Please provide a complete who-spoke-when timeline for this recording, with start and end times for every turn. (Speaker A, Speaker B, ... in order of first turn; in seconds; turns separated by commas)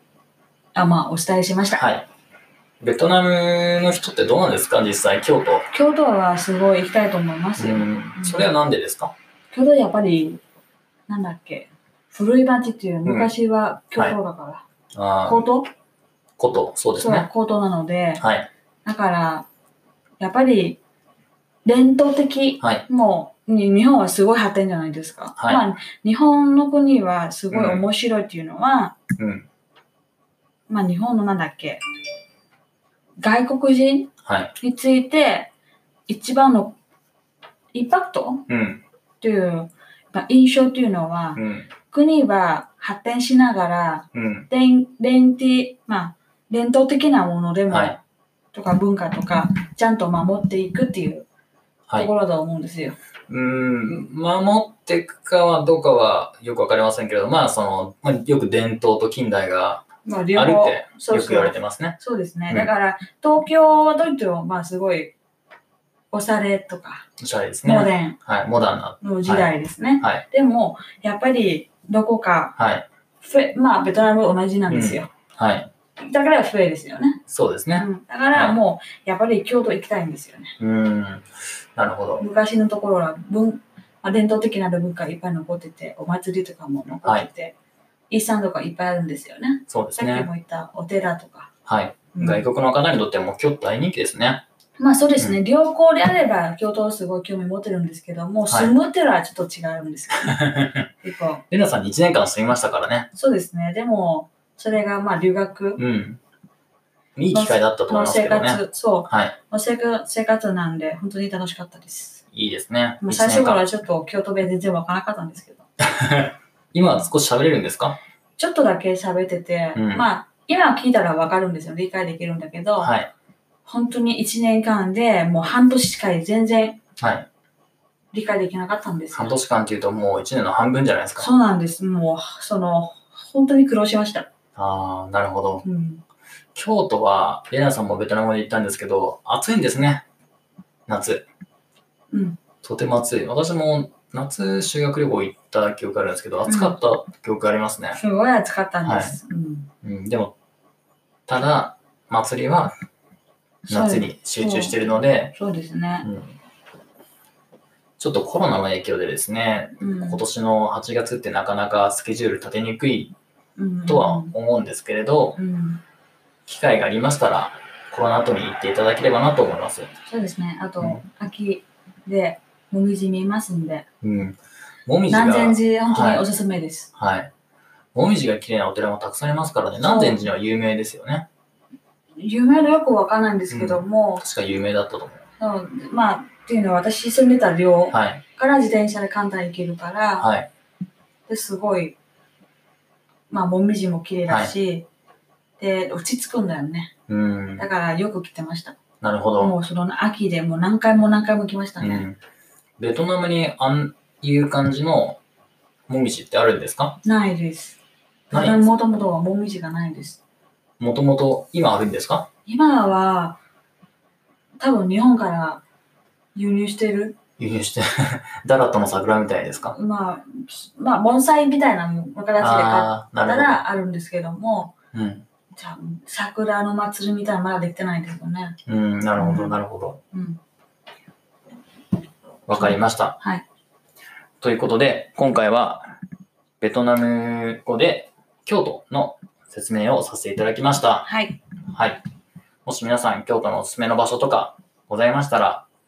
Speaker A: 0.8-1.8, Speaker B: 1.8-2.1, Speaker B: 2.8-5.7, Speaker A: 5.7-8.5, Speaker B: 7.6-9.1, Speaker A: 9.5-10.4, Speaker A: 11.1-14.6, Speaker B: 13.1-13.3, Speaker B: 14.9-15.5, Speaker A: 15.2-15.7, Speaker B: 16.4-17.3, Speaker A: 16.9-18.2, Speaker B: 18.2-18.5, Speaker A: 18.9-19.5, Speaker A: 20.2-20.8, Speaker A: 21.6-29.0, Speaker B: 25.4-25.6, Speaker B: 27.5-27.9, Speaker B: 29.2-29.5, Speaker A: 30.7-31.8, Speaker A: 33.2-35.5, Speaker B: 34.2-34.5, Speaker A: 36.1-36.8, Speaker A: 37.7-38.5, Speaker B: 38.5-38.8, Speaker A: 39.2-48.0, Speaker B: 41.4-41.7, Speaker B: 44.1-44.5, Speaker B: 47.7-48.0, Speaker A: 48.5-51.2, Speaker A: 52.0-53.0, Speaker B: 53.3-59.8, Speaker A: 60.0-65.1, Speaker B: 60.4-62.0, Speaker A: 66.1-67.0, Speaker B: 67.2-70.2, Speaker A: 67.6-68.2, Speaker A: 69.0-72.5, Speaker B: 72.6-72.9, Speaker A: 73.2-75.1, Speaker B: 74.7-75.7, Speaker A: 76.0-77.2, Speaker B: 77.3-78.6, Speaker A: 77.8-80.5, Speaker B: 80.6-82.2, Speaker A: 82.2-87.5, Speaker A: 88.1-91.5, Speaker B: 89.7-90.3, Speaker B: 91.7-94.4, Speaker A: 92.1-92.5, Speaker A: 94.8-100.5, Speaker B: 100.3-100.9, Speaker A: 101.0-101.4, Speaker B: 101.5-103.1, Speaker A: 103.1-105.8, Speaker B: 105.8-106.2, Speaker B: 107.2-109.3, Speaker A: 107.3-112.2, Speaker B: 112.3-113.6, Speaker A: 113.0-115.7, Speaker B: 115.8-118.0, Speaker A: 118.4-122.9, Speaker B: 119.8-120.1, Speaker B: 122.8-123.1, Speaker A: 123.7-126.8, Speaker B: 127.0-127.3, Speaker A: 128.1-129.3, Speaker B: 129.1-131.3, Speaker A: 131.2-134.3, Speaker B: 134.6-135.6, Speaker A: 135.6-136.0, Speaker B: 136.6-140.0, Speaker B: 140.9-141.2, Speaker A: 142.1-142.4, Speaker B: 142.6-148.0, Speaker A: 146.4-146.8, Speaker A: 147.9-149.7, Speaker B: 148.8-149.2, Speaker B: 149.8-150.3, Speaker B: 151.3-152.7, Speaker A: 153.7-154.8, Speaker B: 153.7-155.3, Speaker A: 155.3-156.1, Speaker B: 156.0-156.4, Speaker B: 158.0-163.1, Speaker A: 159.8-160.2, Speaker A: 163.6-164.3, Speaker B: 163.9-165.4, Speaker A: 165.3-165.8, Speaker B: 166.4-169.9, Speaker A: 170.1-173.8, Speaker B: 174.0-176.2, Speaker A: 175.1-176.9, Speaker B: 176.9-177.3, Speaker B: 177.9-181.3, Speaker A: 179.8-180.2, Speaker A: 182.2-184.2, Speaker B: 183.5-185.2, Speaker A: 185.4-190.3, Speaker B: 187.9-188.2, Speaker B: 190.2-190.5, Speaker A: 191.3-191.9, Speaker A: 193.3-194.9, Speaker B: 194.3-194.5, Speaker A: 195.6-196.9, Speaker B: 197.1-197.6, Speaker A: 197.6-198.8, Speaker B: 199.0-199.6, Speaker A: 199.4-202.1, Speaker B: 201.8-202.2, Speaker B: 202.8-205.2, Speaker B: 205.9-207.0, Speaker A: 207.0-207.8, Speaker B: 208.3-208.7, Speaker A: 208.3-210.2, Speaker B: 210.8-212.3, Speaker A: 212.4-213.4, Speaker A: 214.6-215.6, Speaker A: 216.3-217.2, Speaker B: 217.4-219.8, Speaker A: 219.7-224.7, Speaker B: 222.4-223.6, Speaker B: 224.9-225.2, Speaker A: 225.6-228.6, Speaker B: 228.7-230.0, Speaker A: 229.2-230.4, Speaker B: 232.5-233.2, Speaker A: 232.6-233.4, Speaker B: 234.4-235.9, Speaker B: 236.6-241.1, Speaker A: 241.0-241.4, Speaker B: 241.7-242.0, Speaker B: 242.6-245.7